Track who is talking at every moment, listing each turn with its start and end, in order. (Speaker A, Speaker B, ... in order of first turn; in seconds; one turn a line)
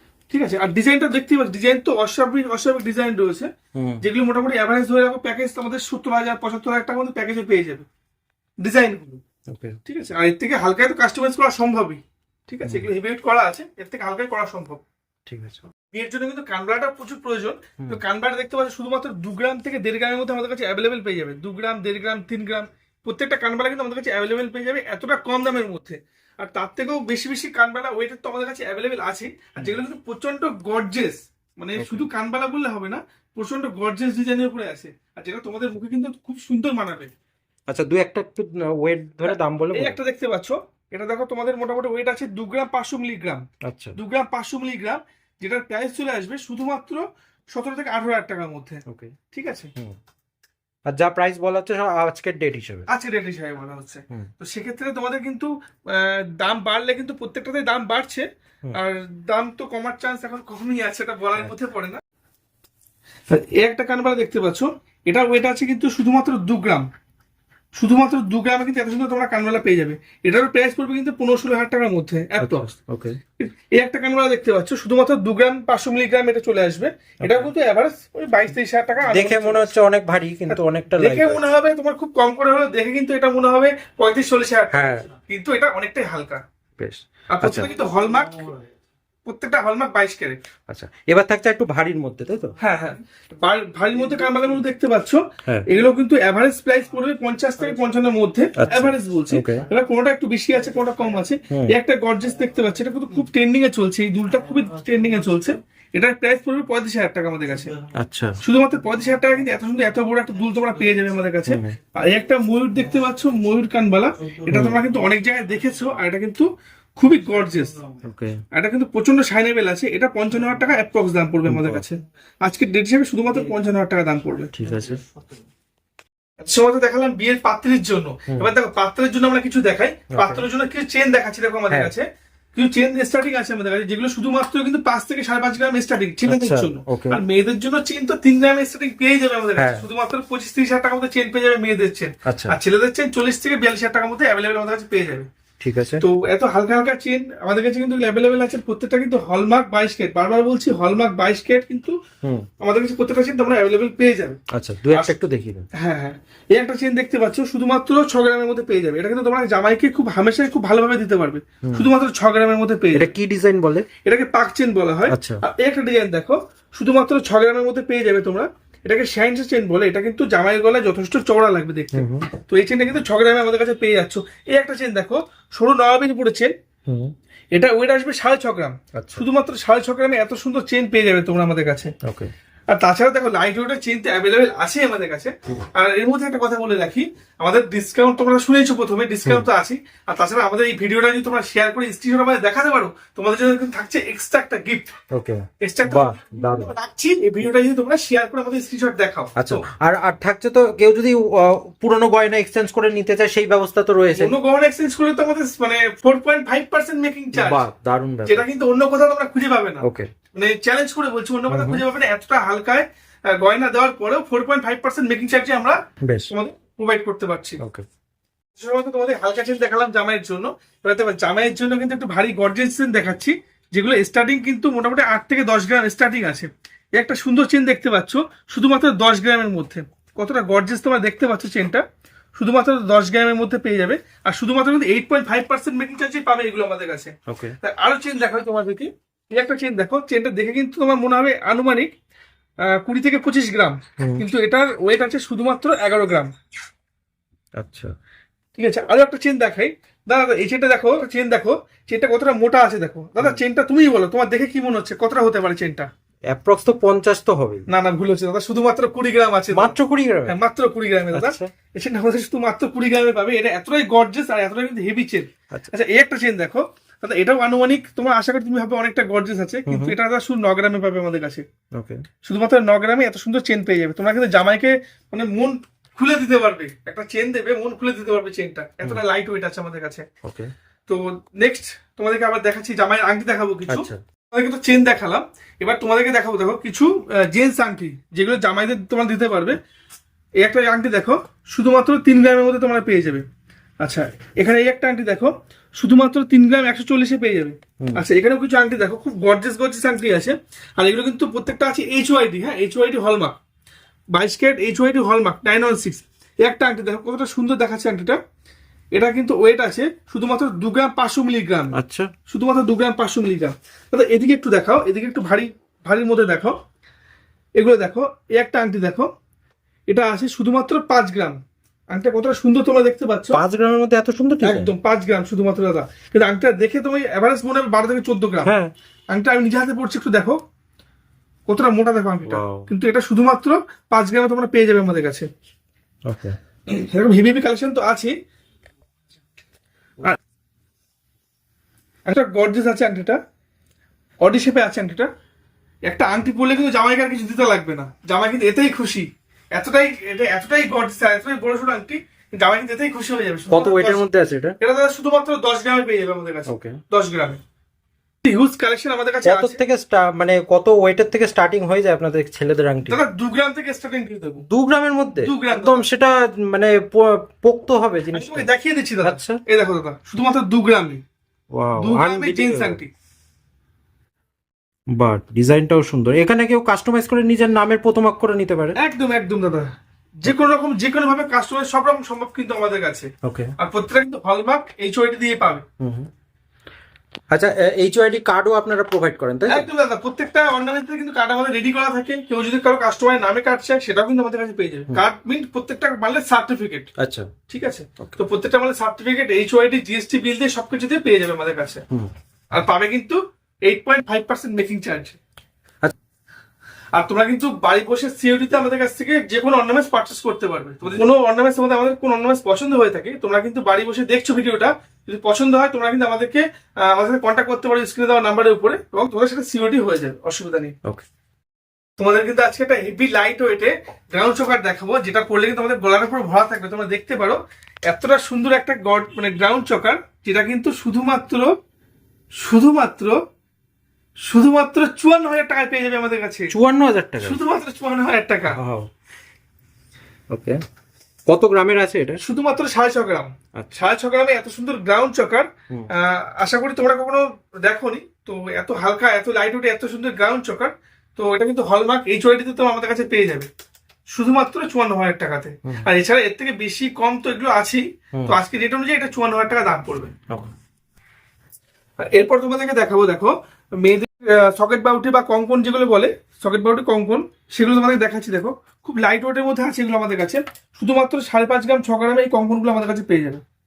Speaker A: 0.3-3.5
Speaker B: 3.7-4.0
Speaker A: 4.0-7.8
Speaker A: 8.6-9.2
Speaker B: 9.5-9.8
Speaker A: 9.8-14.8
Speaker B: 15.3-15.6
Speaker A: 15.9-37.1
Speaker B: 31.8-32.1
Speaker B: 37.7-40.0
Speaker A: 39.2-43.4
Speaker B: 43.6-44.0
Speaker A: 44.0-49.7
Speaker B: 48.9-49.1
Speaker B: 50.9-52.9
Speaker A: 52.9-62.0
Speaker A: 63.3-66.9
Speaker A: 67.7-72.7
Speaker B: 72.4-73.2
Speaker A: 73.4-79.7
Speaker B: 77.2-77.5
Speaker B: 79.1-81.4
Speaker A: 80.5-86.4
Speaker B: 84.7-85.1
Speaker B: 86.8-87.7
Speaker A: 87.3-88.5
Speaker A: 89.2-90.4
Speaker B: 90.7-92.5
Speaker A: 92.6-107.7
Speaker B: 98.6-99.6
Speaker B: 108.0-108.3
Speaker A: 108.4-117.8
Speaker B: 111.5-111.7
Speaker B: 114.5-114.8
Speaker B: 118.0-118.4
Speaker A: 118.5-124.5
Speaker B: 121.5-121.8
Speaker B: 124.5-125.0
Speaker A: 126.4-132.0
Speaker B: 130.1-130.4
Speaker A: 132.6-145.3
Speaker B: 136.2-137.2
Speaker B: 139.6-139.8
Speaker B: 142.2-142.6
Speaker B: 145.6-146.0
Speaker A: 146.0-151.9
Speaker A: 152.6-154.4
Speaker B: 154.5-155.7
Speaker A: 154.9-155.2
Speaker A: 155.7-163.1
Speaker B: 161.6-161.9
Speaker B: 162.9-163.9
Speaker A: 164.0-176.5
Speaker B: 165.1-165.4
Speaker B: 171.9-172.3
Speaker B: 176.9-177.1
Speaker A: 177.5-181.9
Speaker B: 178.9-179.2
Speaker B: 182.0-182.3
Speaker A: 182.7-194.9
Speaker B: 195.1-196.7
Speaker A: 195.6-199.6
Speaker B: 199.4-204.3
Speaker A: 204.2-207.6
Speaker B: 207.3-208.4
Speaker A: 208.2-217.6
Speaker B: 209.8-210.1
Speaker B: 211.5-211.8
Speaker B: 216.0-216.3
Speaker A: 218.6-231.8
Speaker A: 232.3-241.9
Speaker B: 237.3-237.5
Speaker A: 242.6-246.3
Speaker B: 244.0-244.2
Speaker B: 247.6-247.9
Speaker A: 248.6-255.9
Speaker B: 256.3-257.7
Speaker A: 257.7-259.7
Speaker B: 259.5-260.3
Speaker A: 260.3-271.4
Speaker B: 261.1-261.5
Speaker B: 269.7-269.9
Speaker B: 271.7-272.0
Speaker A: 272.2-280.1
Speaker B: 280.2-280.5
Speaker A: 280.9-289.6
Speaker B: 283.7-284.0
Speaker A: 290.4-293.2
Speaker A: 293.8-303.4
Speaker A: 304.1-308.2
Speaker A: 308.9-311.8
Speaker B: 311.7-312.1
Speaker A: 312.3-316.6
Speaker A: 317.6-319.1
Speaker A: 319.9-321.4
Speaker A: 321.9-323.4
Speaker B: 323.3-324.7
Speaker A: 324.4-328.5
Speaker B: 328.4-328.7
Speaker A: 329.1-330.4
Speaker A: 331.5-335.3
Speaker B: 332.2-332.7
Speaker B: 336.1-336.4
Speaker A: 336.7-338.1
Speaker A: 342.1-343.2
Speaker A: 344.2-345.1
Speaker A: 345.9-354.0
Speaker B: 353.5-354.6
Speaker A: 354.6-357.4
Speaker B: 356.5-356.8
Speaker A: 358.2-359.6
Speaker B: 359.2-363.0
Speaker A: 362.9-364.4
Speaker B: 364.5-368.5
Speaker A: 365.2-365.9
Speaker A: 368.1-371.0
Speaker B: 369.0-369.4
Speaker B: 371.5-372.8
Speaker A: 371.8-372.9
Speaker B: 374.9-378.8
Speaker A: 378.7-383.1
Speaker B: 383.2-383.5
Speaker A: 383.6-385.6
Speaker B: 385.8-386.1
Speaker B: 387.3-389.7
Speaker A: 389.5-396.9
Speaker B: 397.0-397.3
Speaker A: 397.5-401.8
Speaker A: 402.5-405.2
Speaker A: 406.9-420.7
Speaker A: 422.0-431.5
Speaker A: 432.4-433.1
Speaker A: 434.2-436.5
Speaker B: 436.5-437.4
Speaker A: 437.2-438.6
Speaker B: 438.5-438.9
Speaker B: 440.3-440.6
Speaker B: 441.3-442.2
Speaker A: 442.2-453.5
Speaker A: 454.1-460.1
Speaker A: 462.0-473.4